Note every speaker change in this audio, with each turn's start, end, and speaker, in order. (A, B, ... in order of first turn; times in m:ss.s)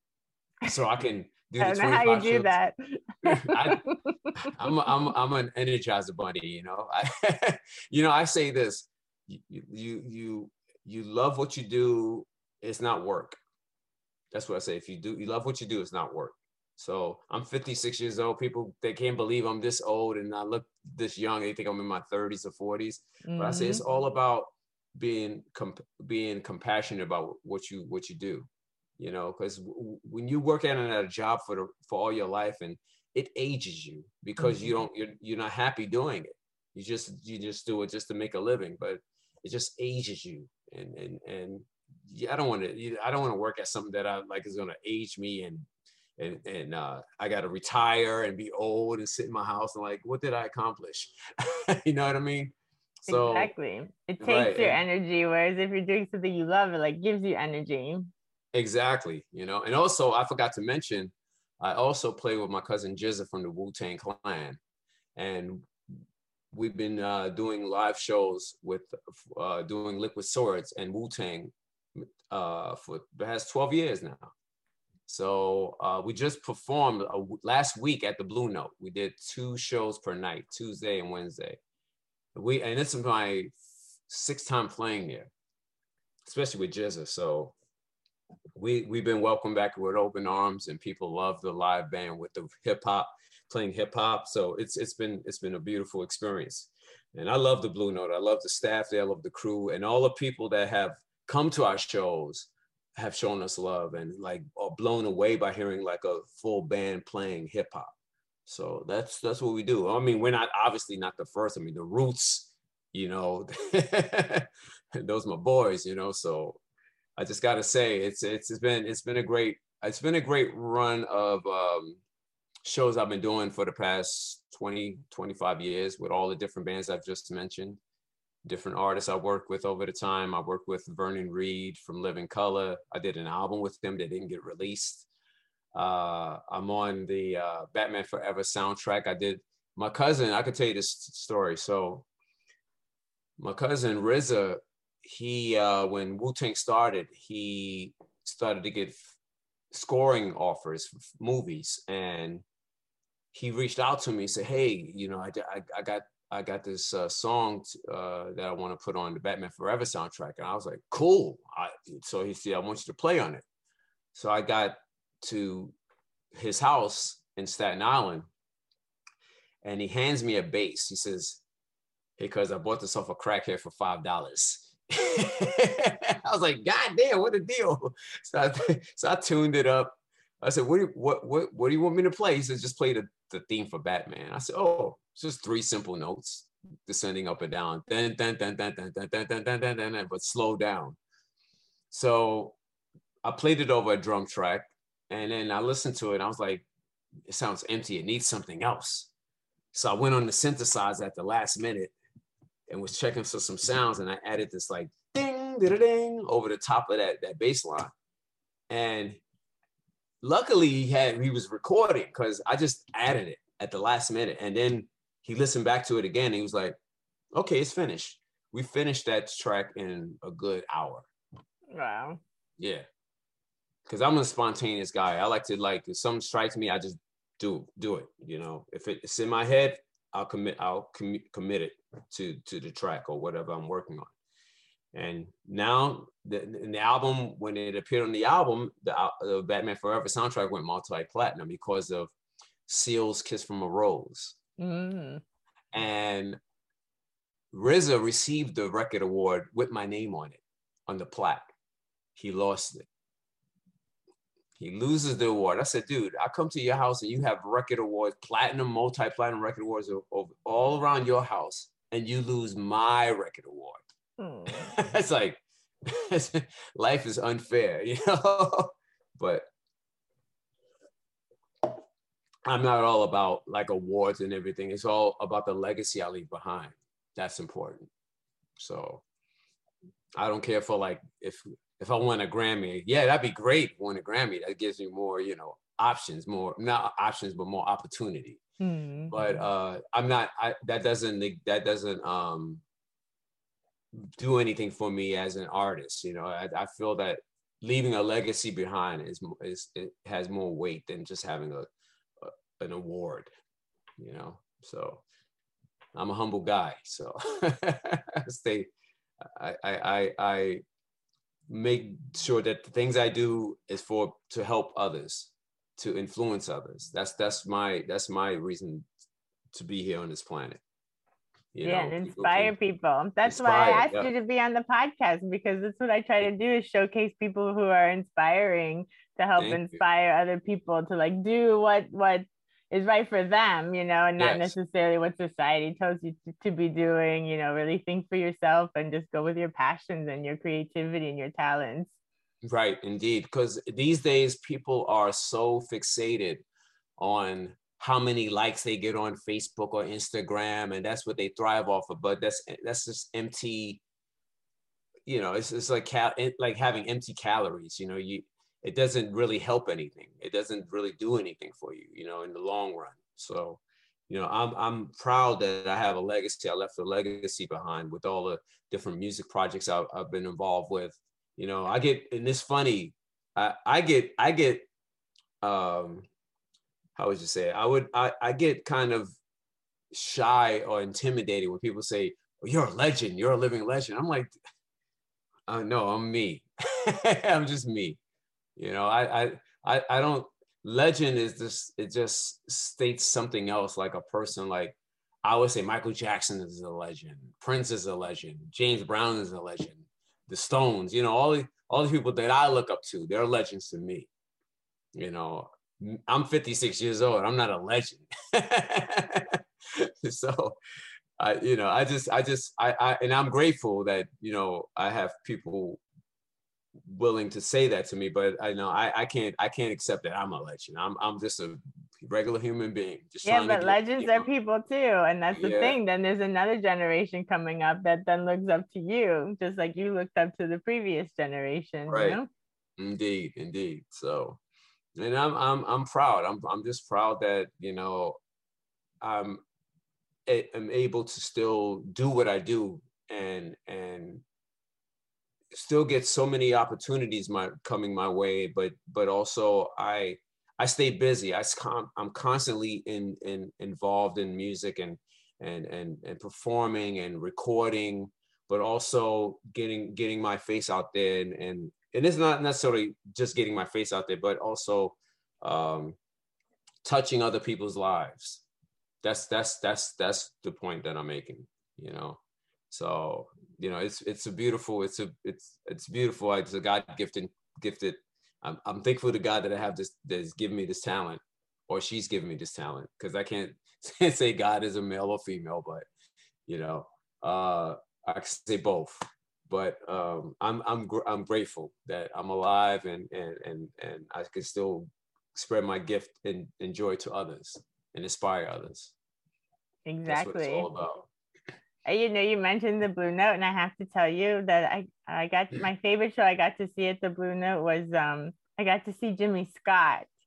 0:00.6-0:02.5 A
0:01.6-0:04.5 B
0:03.3-0:13.4 A
0:14.3-0:45.7 A
0:23.2-0:23.8 B
0:46.2-0:52.6 A
0:53.1-0:53.5 A
0:53.1-0:58.1 B
0:54.2-0:54.8 A
0:58.5-1:04.6 A
1:05.2-1:05.7 A
1:06.5-1:14.3 A
1:15.1-1:21.6 A
1:22.4-1:23.5 A
1:24.1-1:25.3 A
1:26.2-1:27.5 A
1:28.6-1:47.9 A
1:48.5-1:56.6 A
1:57.2-2:02.0 A
2:02.6-2:07.8 A
2:08.4-2:15.1 A
2:15.7-2:22.1 A
2:23.4-2:29.1 A
2:29.7-2:32.4 A
2:33.3-2:43.4 A
2:44.1-2:45.8 A
2:46.3-2:48.3 A
2:49.6-2:51.4 A
2:52.2-3:11.0 A
3:11.9-3:12.6 A
3:13.2-3:16.7 A
3:17.3-3:19.1 A
3:19.7-3:21.9 A
3:22.7-3:27.9 A
3:28.7-3:29.2 A
3:30.2-3:36.8 A
3:37.3-3:41.1 A
3:41.7-3:42.2 B
3:42.6-3:42.8 A
3:43.9-3:54.1 A
3:54.9-4:02.1 A
4:02.7-4:04.4 A
4:04.6-4:05.2 B
4:05.7-4:06.4 A
4:07.5-4:11.5 A
4:12.2-4:12.9 A
4:14.6-4:23.8 A
4:24.2-4:24.7 B
4:24.5-4:29.5 A
4:32.5-4:37.9 A
4:38.6-4:39.0 A
4:40.2-4:48.4 A
4:48.6-4:49.2 B
4:49.1-4:52.6 A
4:53.9-5:01.7 A
5:02.2-5:03.3 A
5:04.0-5:05.0 A
5:06.0-5:08.7 A
5:09.2-5:10.6 A
5:11.5-5:18.9 A
5:19.5-5:20.6 A
5:21.5-5:22.5 A
5:21.6-5:41.9 B
5:23.3-5:24.1 A
5:29.4-5:29.8 A
5:34.2-5:34.6 A
5:42.4-5:46.4 A
5:47.0-5:53.8 A
5:55.1-6:14.7 A
6:15.4-6:16.1 A
6:17.0-6:19.1 A
6:19.9-6:24.3 A
6:25.5-6:28.0 A
6:28.6-6:44.1 A
6:45.0-6:50.6 A
6:51.2-6:55.8 A
6:56.9-7:04.3 A
7:03.2-7:12.3 B
7:05.3-7:05.8 A
7:11.9-7:12.2 A
7:12.8-7:14.4 A
7:15.0-7:18.2 A
7:19.0-7:19.4 A
7:20.3-7:24.2 A
7:25.5-7:46.0 A
7:46.8-7:48.4 A
7:49.0-7:52.2 A
7:52.7-8:05.9 A
8:06.5-8:18.9 A
8:19.9-8:20.7 B
8:20.1-8:21.1 A
8:21.8-8:30.1 B